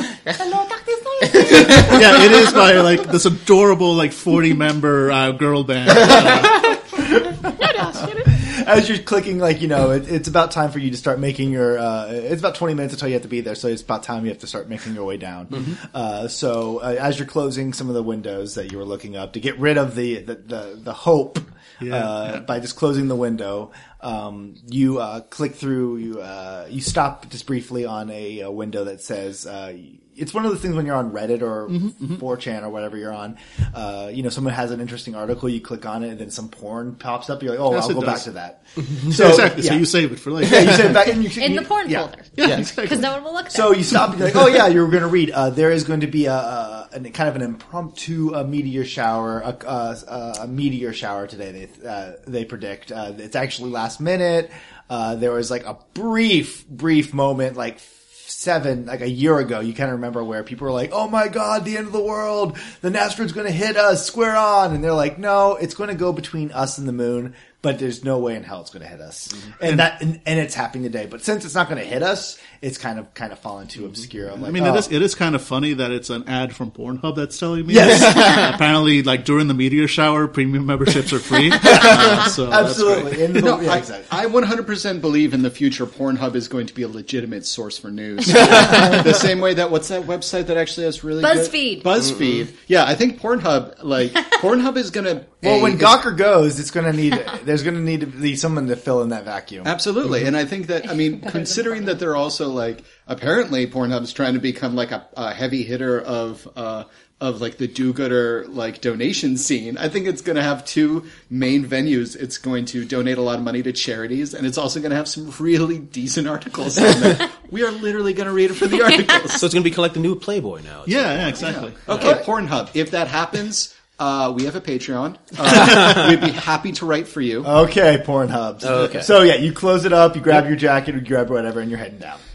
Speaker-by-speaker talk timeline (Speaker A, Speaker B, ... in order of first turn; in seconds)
Speaker A: 0.3-2.0, 7.6-8.3, 41.4-44.0, 91.2-91.9, 101.2-101.9
Speaker B: 1.4-6.8, 21.8-22.4, 31.7-32.2, 37.7-38.3, 38.9-41.1, 42.4-43.1, 74.4-83.3, 120.8-122.0
Speaker C: 6.9-7.5, 8.1-42.7, 43.5-74.9, 77.7-78.5, 81.6-84.1, 95.4-99.7, 121.9-122.3, 127.4-132.2
Speaker D: 42.4-42.7, 92.2-92.5, 119.3-122.1, 128.6-129.1
Speaker E: 83.3-96.0, 99.6-119.4, 121.4-127.5